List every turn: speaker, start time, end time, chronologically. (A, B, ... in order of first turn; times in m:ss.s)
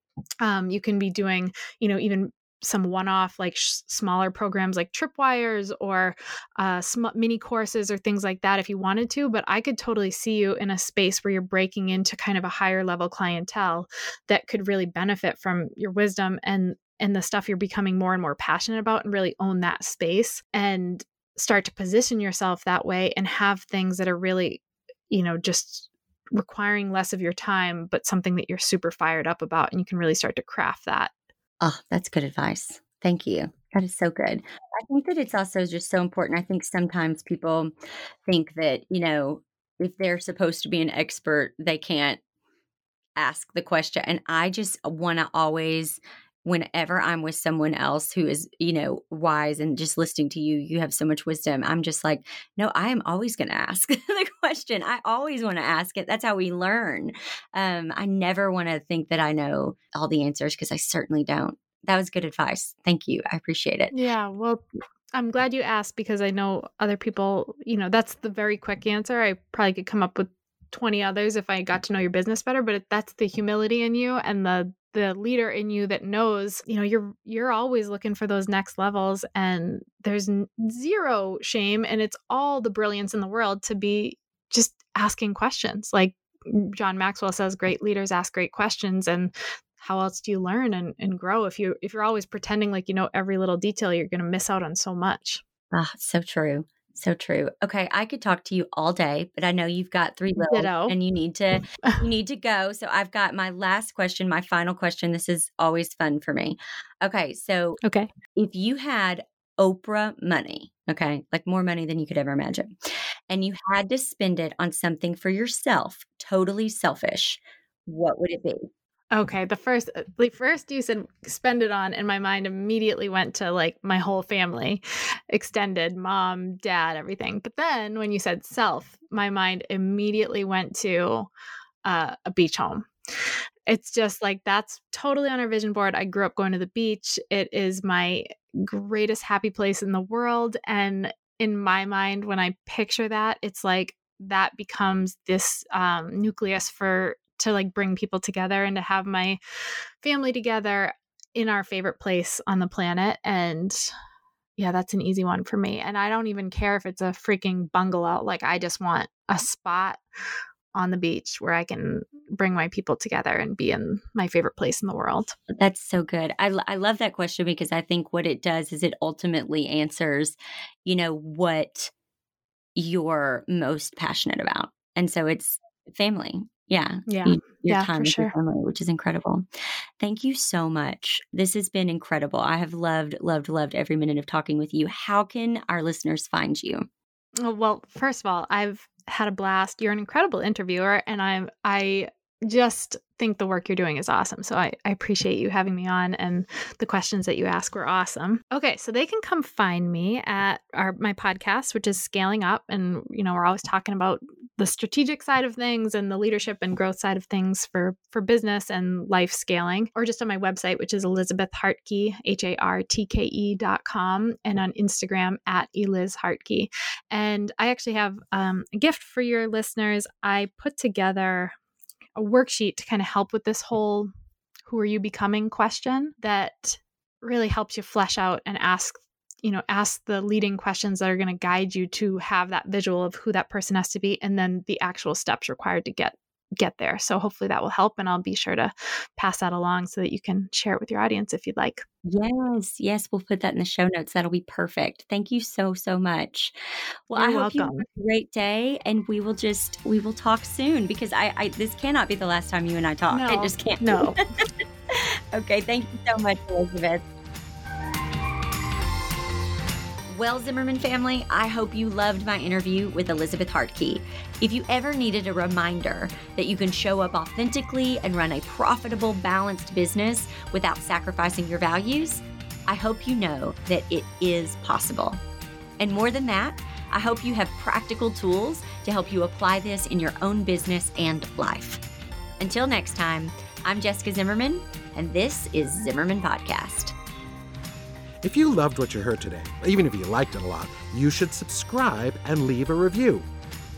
0:00.4-0:31.1 A
0:31.6-0:37.7 B
0:38.3-0:42.2 B
0:43.2-1:03.9 B
1:03.9-1:35.4 A
1:35.7-1:47.8 B
1:40.4-1:40.9 A
1:47.8-1:48.1 A
1:48.4-1:52.8 B
1:53.3-1:58.7 B
1:59.1-2:11.3 A
2:11.8-2:12.9 A
2:13.7-2:29.4 A
2:30.0-2:33.9 A
2:34.6-2:40.0 A
2:40.7-2:45.4 A
2:45.5-2:51.9 B
2:52.7-2:59.4 B
2:57.1-2:58.3 A
3:00.0-3:06.8 B
3:07.4-3:41.5 A
3:42.2-3:44.1 A
3:44.6-4:01.8 A
4:02.0-4:06.5 B
4:07.1-4:14.2 B
4:07.1-4:07.8 A
4:13.1-4:14.2 A
4:14.9-4:17.0 B
4:20.1-4:35.2 B
4:35.8-4:41.8 B
4:42.4-4:46.9 B
4:48.2-4:53.3 C